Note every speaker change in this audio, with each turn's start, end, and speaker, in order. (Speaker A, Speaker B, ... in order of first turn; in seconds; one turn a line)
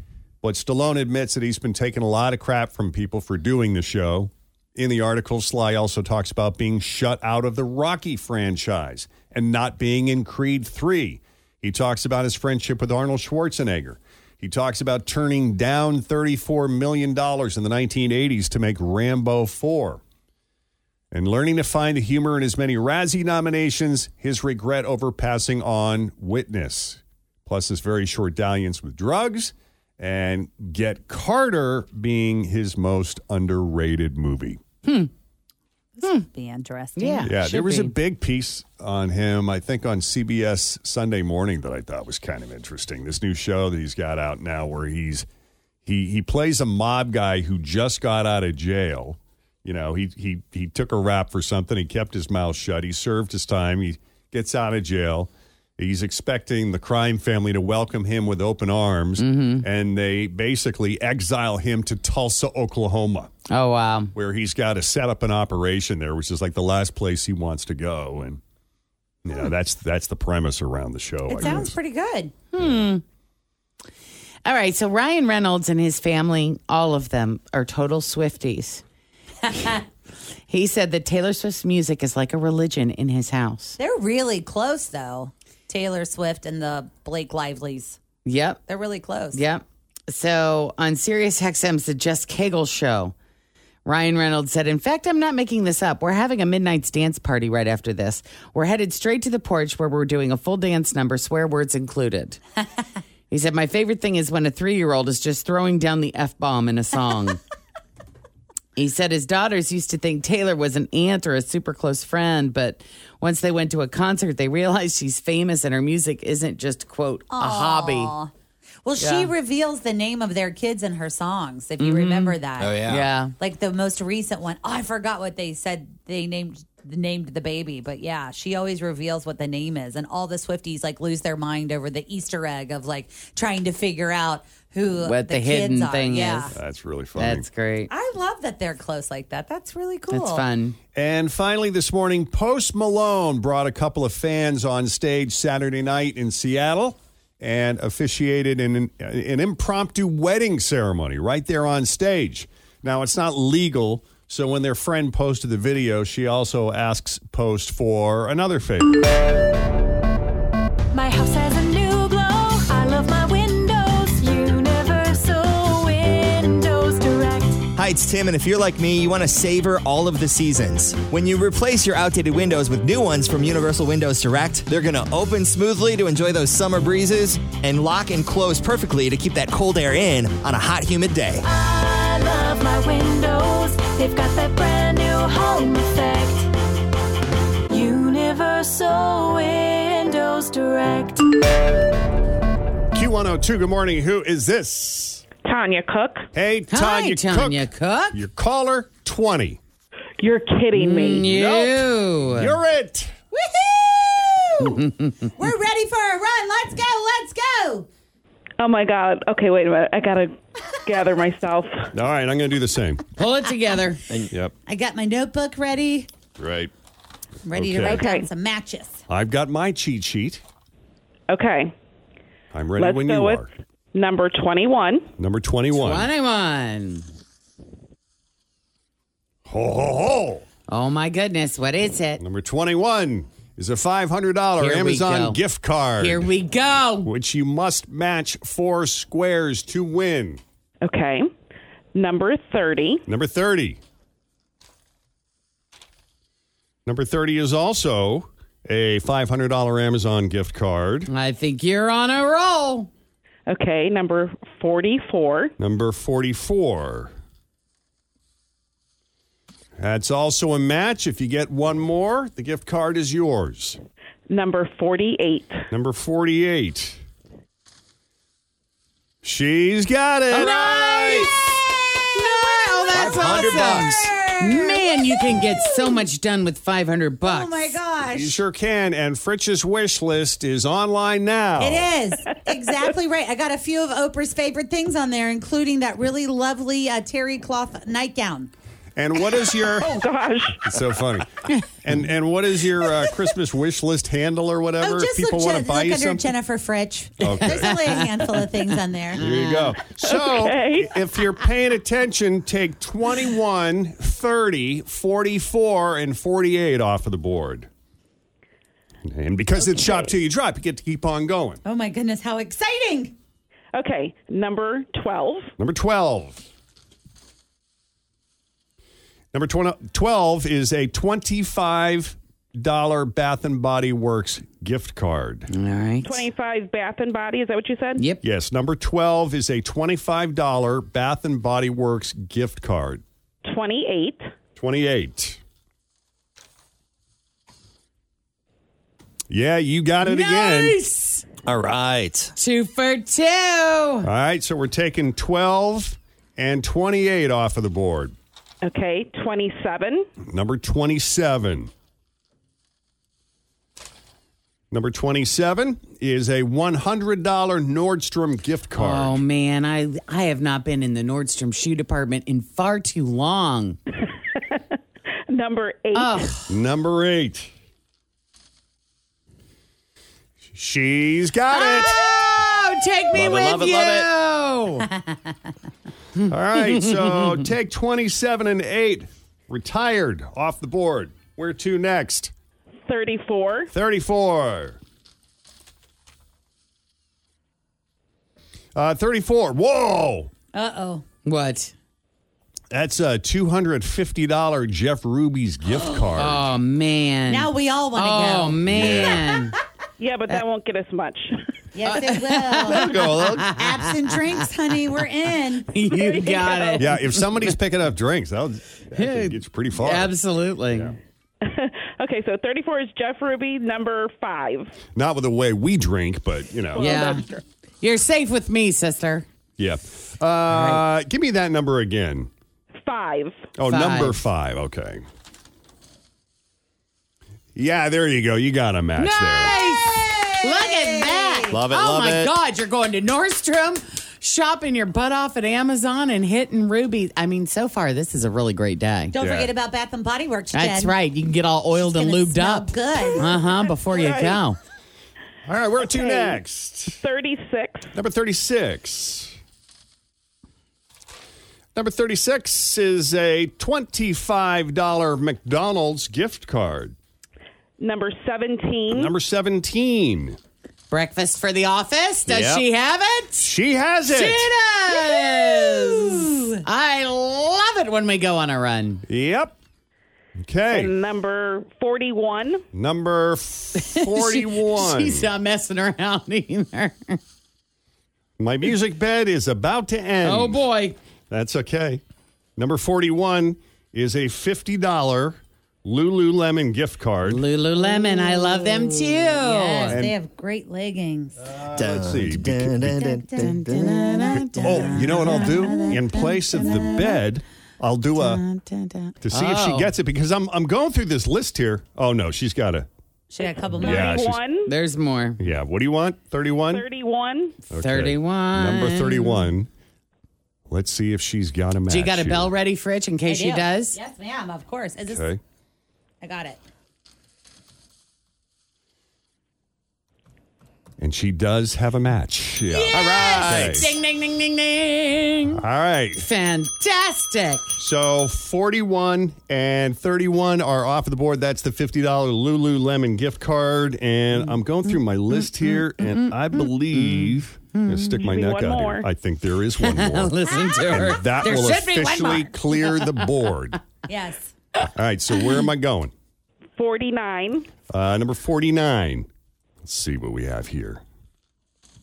Speaker A: 0.4-20.0
Speaker A: 21.1-34.6
Speaker B: 34.8-35.1
Speaker C: 36.0-37.3
Speaker B: 37.0-37.9
Speaker A: 37.2-45.3
Speaker A: 45.8-63.3
Speaker B: 59.2-59.6
Speaker B: 63.5-64.1
Speaker A: 64.1-68.4
Speaker A: 69.2-71.7
Speaker C: 71.3-72.3
Speaker B: 72.5-73.0
Speaker B: 74.4-78.8
Speaker B: 80.5-83.8
Speaker C: 83.8-88.0
Speaker B: 88.2-88.6
Speaker C: 88.7-89.4
Speaker B: 89.3-93.1
Speaker B: 93.8-102.4
Speaker B: 103.3-107.4
Speaker B: 108.8-118.1
Speaker C: 117.3-118.3
Speaker C: 118.8-122.8
Speaker B: 119.0-119.3
Speaker B: 121.8-123.3
Speaker D: 122.6-123.0
Speaker C: 123.4-136.5
Speaker B: 135.0-136.5
Speaker A: 136.5-137.4
Speaker B: 137.2-137.9
Speaker C: 137.9-140.4
Speaker B: 140.1-140.8
Speaker A: 140.9-159.0
Speaker E: 160.9-167.6
Speaker D: 167.8-181.4
Speaker E: 181.4-186.5
Speaker E: 187.7-191.3
Speaker A: 192.9-195.2
Speaker F: 195.4-196.3
Speaker A: 196.3-199.6
Speaker B: 196.7-198.2
Speaker F: 200.2-201.2
Speaker B: 200.8-202.5
Speaker A: 201.2-203.2
Speaker C: 203.3-204.8
Speaker B: 204.8-205.1
Speaker C: 205.4-207.9
Speaker F: 208.6-211.9
Speaker A: 211.9-213.0
Speaker B: 213.2-214.0
Speaker C: 214.7-216.1
Speaker A: 216.4-216.7
Speaker C: 217.4-219.0
Speaker A: 217.5-218.0
Speaker F: 217.9-218.3
Speaker A: 219.1-220.4
Speaker F: 221.3-221.7
Speaker A: 222.5-223.5
Speaker F: 222.8-225.1
Speaker A: 225.2-226.1
Speaker B: 225.7-227.1
Speaker A: 229.4-230.4
Speaker B: 230.7-232.2
Speaker A: 232.2-236.3
Speaker B: 234.6-235.4
Speaker B: 236.0-237.1
Speaker A: 237.0-240.4
Speaker F: 240.8-241.3
Speaker F: 241.9-243.0
Speaker A: 243.1-243.8
Speaker A: 246.8-251.1
Speaker B: 251.1-252.9
Speaker F: 253.5-255.5
Speaker A: 255.6-257.1
Speaker A: 259.8-263.8
Speaker F: 264.3-265.6
Speaker A: 265.7-267.0
Speaker A: 269.2-271.3
Speaker B: 270.3-277.8
Speaker C: 272.2-276.0
Speaker D: 272.9-274.1
Speaker A: 273.0-273.6
Speaker C: 277.2-278.4
Speaker A: 278.1-281.9
Speaker C: 281.6-288.5
Speaker A: 288.9-289.9
Speaker F: 289.7-290.7
Speaker A: 290.6-296.3
Speaker C: 294.8-299.2
Speaker A: 297.2-297.7
Speaker A: 299.2-307.7
Speaker B: 299.2-299.7
Speaker F: 300.0-300.9
Speaker A: 309.0-311.6
Speaker C: 311.6-313.1
Speaker F: 313.7-315.5
Speaker A: 315.6-316.4
Speaker A: 319.3-325.5
Speaker B: 325.5-326.2
Speaker F: 326.0-328.0
Speaker A: 328.2-333.0
Speaker F: 333.4-334.3
Speaker A: 334.6-335.4
Speaker A: 339.3-340.8
Speaker B: 340.0-341.2
Speaker D: 341.4-342.3
Speaker B: 342.4-344.1
Speaker A: 344.0-348.1
Speaker F: 348.6-350.1
Speaker A: 350.2-351.7
Speaker A: 354.7-359.2
Speaker B: 358.8-363.8
Speaker F: 365.3-366.3
Speaker B: 365.9-366.5
Speaker A: 366.5-367.5
Speaker A: 370.5-372.0
Speaker B: 371.5-374.9
Speaker D: 373.1-374.1
Speaker B: 376.2-377.3
Speaker A: 376.2-382.3
Speaker F: 382.9-383.7
Speaker A: 383.7-384.8
Speaker A: 388.7-390.3
Speaker C: 390.5-391.0
Speaker B: 391.2-391.7
Speaker A: 392.7-396.5
Speaker B: 396.1-399.6
Speaker C: 397.3-398.7
Speaker A: 398.7-399.3
Speaker F: 400.0-401.4
Speaker C: 401.7-405.7
Speaker B: 401.8-404.4
Speaker D: 402.8-403.4
Speaker B: 405.7-407.2
Speaker F: 405.9-406.8
Speaker A: 406.8-410.1
Speaker B: 408.9-410.9
Speaker A: 410.7-410.9
Speaker F: 411.4-414.7
Speaker A: 414.9-416.9
Speaker F: 416.7-417.4
Speaker B: 416.8-417.2
Speaker B: 417.8-419.2
Speaker A: 419.6-422.3
Speaker B: 420.5-420.8
Speaker F: 422.8-423.4
Speaker A: 423.6-425.0
Speaker B: 423.7-424.2
Speaker A: 427.5-429.5
Speaker B: 429.0-439.1
Speaker C: 429.6-431.6
Speaker D: 431.5-432.3
Speaker C: 439.1-440.9
Speaker A: 439.2-439.5
Speaker B: 440.5-444.6
Speaker C: 441.8-443.4
Speaker A: 443.9-444.4
Speaker A: 445.4-447.0
Speaker F: 445.9-446.4
Speaker F: 447.0-447.9
Speaker A: 447.9-449.4
Speaker A: 451.7-456.9
Speaker F: 457.8-459.1
Speaker A: 458.9-460.4
Speaker B: 460.9-463.5
Speaker A: 462.3-462.6
Speaker A: 463.4-464.5
Speaker B: 464.1-469.0
Speaker C: 465.3-466.4
Speaker A: 469.1-469.6
Speaker A: 470.4-470.9
Speaker F: 470.7-472.6
Speaker A: 472.7-475.3
Speaker B: 473.8-477.2
Speaker A: 478.4-480.7
Speaker B: 480.2-480.9
Speaker A: 481.3-482.0
Speaker A: 482.6-487.4
Speaker B: 487.2-490.0
Speaker C: 489.4-491.4
Speaker A: 489.9-490.1
Speaker A: 491.6-493.0
Speaker D: 491.6-494.4
Speaker C: 493.0-493.5
Speaker B: 493.3-497.2
Speaker A: 494.5-498.4
Speaker C: 494.8-495.7
Speaker B: 498.2-499.9
Speaker A: 499.2-502.9
Speaker C: 503.3-504.2
Speaker A: 503.8-504.4
Speaker F: 503.8-504.7
Speaker B: 504.6-505.4
Speaker A: 505.4-506.8
Speaker F: 506.7-507.6
Speaker B: 507.7-509.4
Speaker A: 507.7-509.7
Speaker A: 510.7-512.5
Speaker B: 511.9-514.0
Speaker C: 513.3-515.2
Speaker A: 515.1-515.4
Speaker C: 516.2-516.6
Speaker A: 521.0-524.0
Speaker B: 522.9-525.6
Speaker C: 522.9-523.4
Speaker A: 525.5-526.2
Speaker B: 526.2-527.8
Speaker A: 527.8-540.4
Speaker B: 535.6-538.2
Speaker F: 538.2-539.0
Speaker B: 539.8-543.3
Speaker A: 540.9-543.8
Speaker C: 544.1-544.5
Speaker A: 544.8-546.1
Speaker F: 546.8-547.7
Speaker A: 547.9-549.3
Speaker A: 549.8-551.0